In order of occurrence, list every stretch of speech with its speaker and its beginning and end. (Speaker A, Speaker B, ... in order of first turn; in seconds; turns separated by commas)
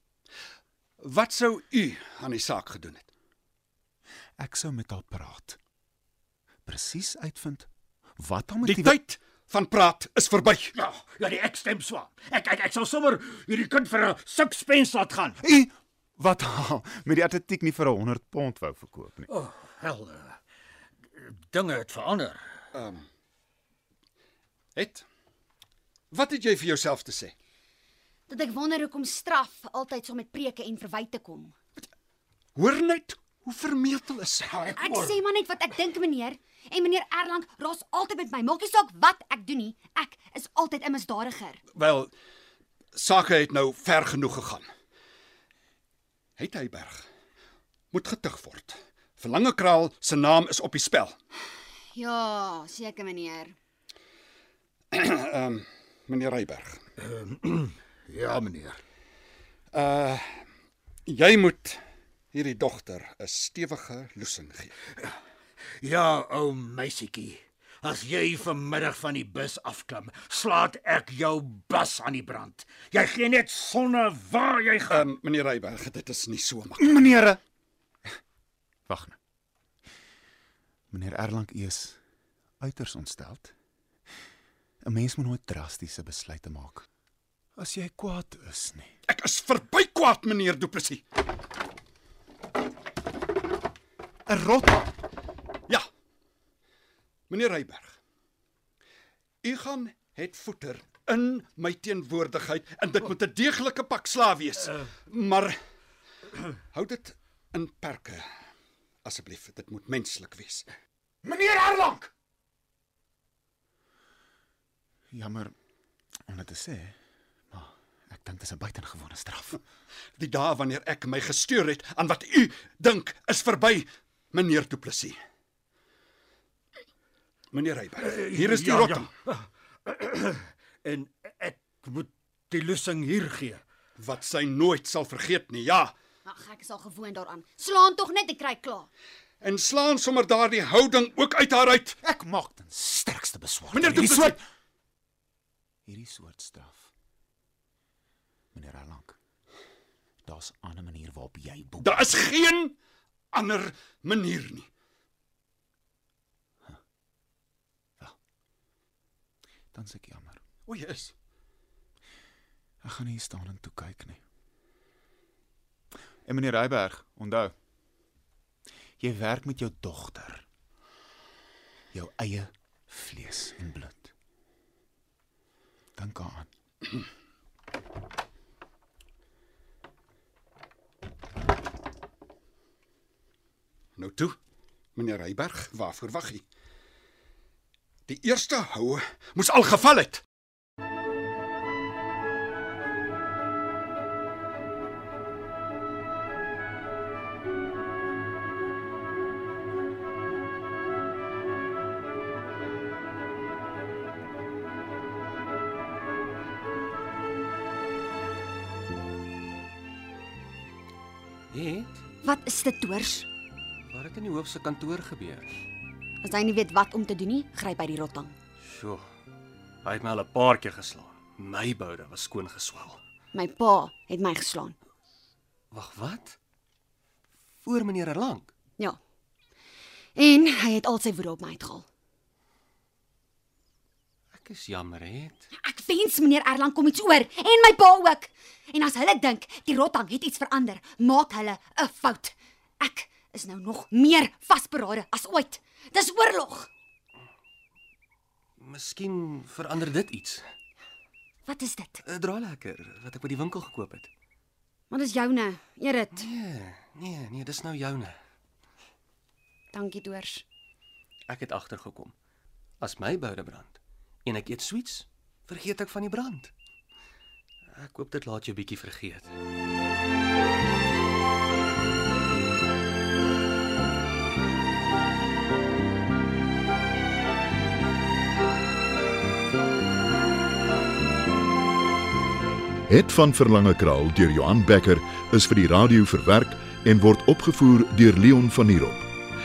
Speaker A: 1.0-3.1, Speaker B: 4.4-5.6, Speaker B: 6.7-8.9, Speaker A: 8.6-10.8, Speaker C: 10.8-15.4, Speaker B: 15.4-19.3, Speaker C: 19.3-20.4, Speaker C: 21.1-22.4, Speaker A: 22.7-23.0, Speaker A: 24.7-25.0, Speaker A: 26.1-27.3, Speaker D: 28.3-31.5, Speaker A: 32.5-34.6, Speaker C: 34.5-35.2, Speaker D: 34.7-41.6, Speaker A: 41.7-42.1, Speaker A: 42.9-44.6, Speaker A: 46.4-47.0, Speaker A: 47.9-51.1, Speaker D: 51.9-53.5, Speaker A: 54.9-56.8, Speaker C: 57.0-58.8, Speaker A: 59.7-60.4, Speaker A: 61.1-61.8, Speaker A: 62.3-64.7, Speaker C: 65.8-75.1, Speaker A: 74.9-77.0, Speaker B: 76.8-77.4, Speaker B: 78.9-79.2, Speaker B: 80.9-82.0, Speaker B: 82.6-83.5, Speaker B: 84.8-86.8, Speaker B: 87.5-88.9, Speaker A: 89.1-91.0, Speaker B: 94.3-94.9, Speaker A: 97.3-98.0, Speaker A: 99.4-105.5, Speaker A: 106.7-108.2, Speaker A: 109.0-110.7, Speaker B: 111.2-112.1, Speaker B: 115.1-115.5, Speaker B: 116.3-117.0, Speaker B: 117.5-119.6, Speaker A: 120.2-125.2, Speaker A: 127.5-129.1, Speaker C: 128.0-133.6, Speaker A: 134.0-135.9, Speaker D: 136.2-138.9, Speaker A: 139.4-142.0, Speaker B: 142.0-144.4, Speaker A: 143.7-144.4, Speaker B: 145.8-146.9, Speaker B: 148.5-149.2, Speaker B: 150.2-152.1, Speaker A: 151.8-152.8, Speaker A: 153.3-154.7, Speaker B: 159.7-160.4, Speaker A: 160.7-161.1, Speaker B: 162.8-164.2, Speaker B: 166.2-167.5, Speaker B: 169.0-170.4, Speaker B: 171.9-174.1, Speaker B: 175.9-176.5, Speaker A: 184.0-184.3, Speaker A: 184.9-186.4, Speaker A: 188.1-190.2, Speaker E: 211.5-211.9, Speaker D: 212.2-213.3, Speaker E: 213.9-215.5, Speaker D: 216.2-218.3, Speaker E: 218.6-219.0, Speaker E: 219.8-223.0, Speaker D: 223.3-224.8, Speaker E: 225.7-226.4, Speaker E: 227.6-228.5, Speaker D: 230.2-231.8, Speaker E: 234.3-235.5, Speaker D: 235.5-246.7, Speaker E: 248.6-250.4, Speaker D: 251.4-252.0, Speaker E: 252.0-254.1, Speaker D: 254.9-256.3, Speaker E: 256.1-258.2, Speaker D: 259.7-260.4, Speaker E: 261.3-262.1, Speaker E: 262.8-266.5, Speaker E: 267.7-269.3, Speaker F: 282.9-289.1